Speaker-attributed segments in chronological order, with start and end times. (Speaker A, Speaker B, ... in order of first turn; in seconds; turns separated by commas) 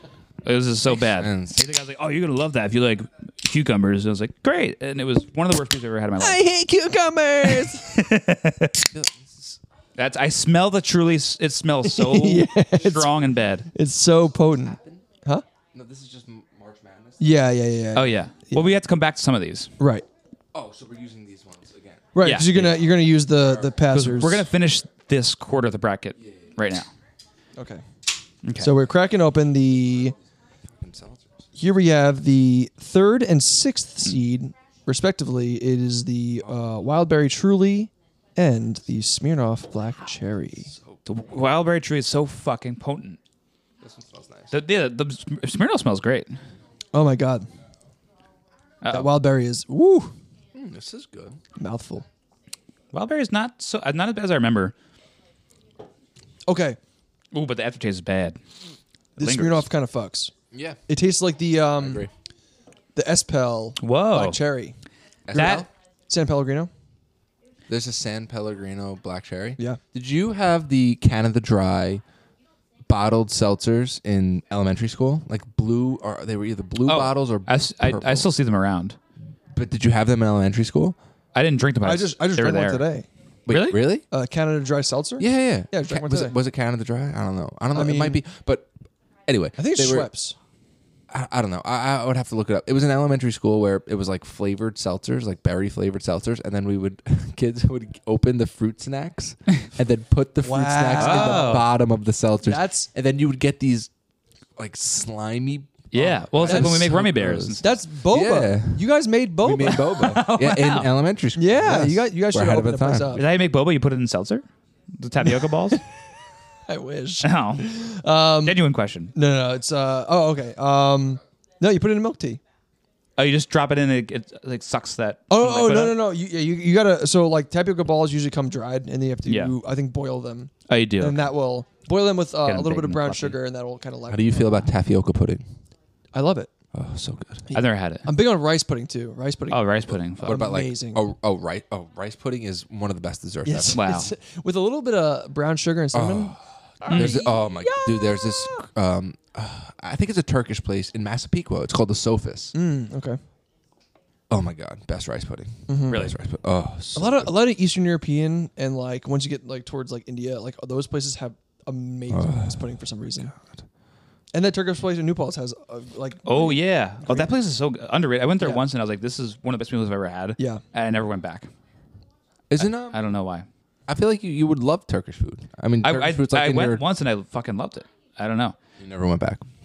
Speaker A: 0.4-6.4, Speaker B: 0.9-1.6, Speaker C: 6.2-8.0, Speaker A: 7.4-8.8, Speaker B: 8.9-9.6, Speaker A: 9.9-13.7, Speaker C: 11.9-13.1, Speaker C: 13.7-15.4, Speaker B: 14.5-15.1, Speaker B: 15.7-17.3, Speaker C: 17.2-18.7, Speaker A: 17.9-19.7, Speaker C: 19.8-20.1, Speaker B: 20.5-22.7, Speaker C: 22.1-24.4, Speaker A: 22.2-22.8, Speaker B: 23.4-23.7, Speaker A: 23.9-26.9, Speaker B: 26.2-26.5, Speaker C: 27.6-27.8, Speaker A: 28.4-28.7, Speaker C: 28.6-30.1, Speaker B: 30.8-31.4, Speaker C: 31.6-40.7, Speaker B: 40.7-41.0, Speaker A: 41.0-43.2, Speaker B: 43.8-44.5, Speaker A: 44.5-46.4, Speaker C: 46.9-47.5, Speaker A: 48.8-49.1, Speaker C: 48.9-50.1, Speaker B: 50.5-51.4, Speaker C: 51.6-52.0, Speaker A: 52.9-54.7, Speaker C: 56.5-56.8, Speaker A: 57.3-58.4, Speaker C: 59.2-60.3, Speaker A: 59.2-59.7, Speaker B: 60.5-60.8, Speaker C: 60.9-62.0, Speaker B: 61.8-62.1, Speaker C: 62.9-64.8, Speaker A: 63.8-64.4, Speaker B: 65.3-65.7, Speaker A: 65.3-65.7, Speaker C: 65.3-66.7, Speaker B: 67.7-72.0, Speaker B: 72.9-78.3, Speaker A: 76.8-79.0, Speaker B: 79.5-81.0, Speaker A: 81.3-82.9, Speaker C: 81.8-83.1, Speaker B: 83.5-84.0, Speaker A: 83.5-83.8, Speaker C: 84.1-86.3, Speaker B: 85.2-88.7, Speaker C: 87.7-88.2, Speaker B: 89.3-90.1, Speaker C: 89.6-90.4, Speaker B: 91.1-103.9, Speaker C: 100.4-101.6, Speaker A: 101.0-101.7, Speaker C: 102.4-102.9, Speaker B: 104.6-108.9, Speaker A: 105.9-107.7, Speaker C: 106.4-107.0, Speaker C: 107.6-109.9, Speaker B: 109.4-113.2, Speaker A: 109.7-110.9, Speaker C: 111.3-113.2, Speaker A: 113.1-115.8, Speaker C: 116.7-118.6, Speaker A: 117.2-117.7, Speaker A: 118.4-119.1, Speaker C: 119.1-122.4, Speaker A: 123.2-126.0, Speaker C: 125.3-134.7, Speaker A: 129.3-129.5, Speaker A: 130.7-131.3, Speaker A: 132.4-133.4, Speaker B: 134.1-135.4, Speaker C: 136.1-136.5, Speaker B: 136.7-137.4, Speaker C: 137.5-141.0, Speaker A: 137.5-138.1, Speaker A: 139.5-140.4, Speaker B: 140.2-143.8, Speaker C: 143.4-148.6, Speaker A: 143.7-144.1, Speaker B: 145.9-152.5, Speaker A: 146.9-147.2, Speaker C: 152.5-153.2, Speaker B: 154.3-157.3, Speaker C: 155.7-156.1, Speaker A: 155.9-156.1, Speaker C: 156.9-163.3, Speaker B: 162.1-162.6, Speaker B: 163.3-163.6, Speaker C: 164.3-167.3, Speaker A: 166.3-171.5, Speaker B: 172.5-173.0, Speaker A: 172.9-173.4, Speaker B: 173.9-176.8, Speaker A: 175.8-178.6, Speaker B: 178.8-179.4